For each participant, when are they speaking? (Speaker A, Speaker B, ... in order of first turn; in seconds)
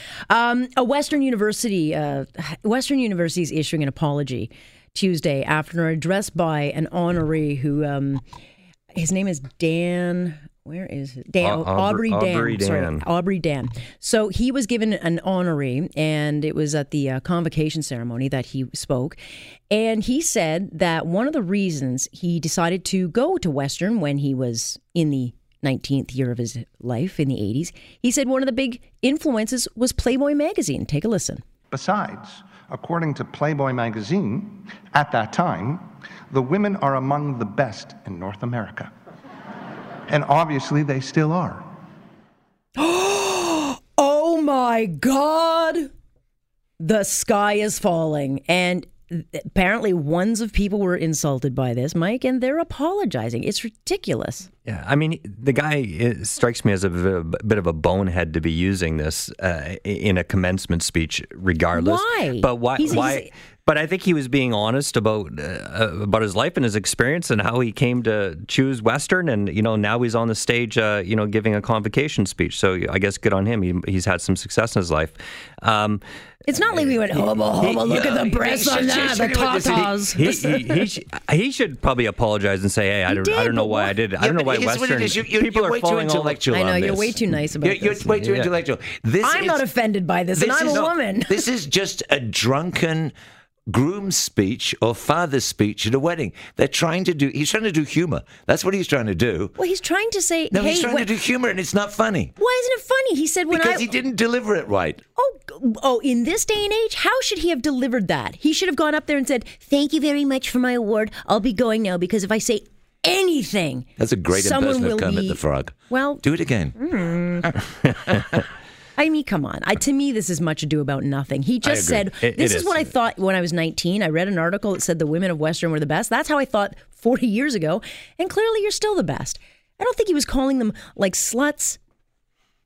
Speaker A: 0.3-8.2, 8.9-19.2, 19.7-31.4, 42.8-45.9, 46.8-54.5, 61.7-63.3, 76.5-80.8, 83.1-83.9, 86.5-88.1, 89.2-91.4, 99.6-101.1, 102.4-103.9, 105.2-116.2, 116.8-117.6, 119.0-131.8
Speaker B: 11.4-13.0, 54.7-76.0, 77.6-78.2, 80.1-86.4, 88.2-88.5, 122.2-122.9
Speaker C: 31.7-38.9, 40.1-41.7
Speaker D: 77.8-80.0, 84.2-89.6, 90.3-93.1, 93.7-99.6, 100.5-102.3, 103.5-105.0, 114.0-116.9, 121.6-122.1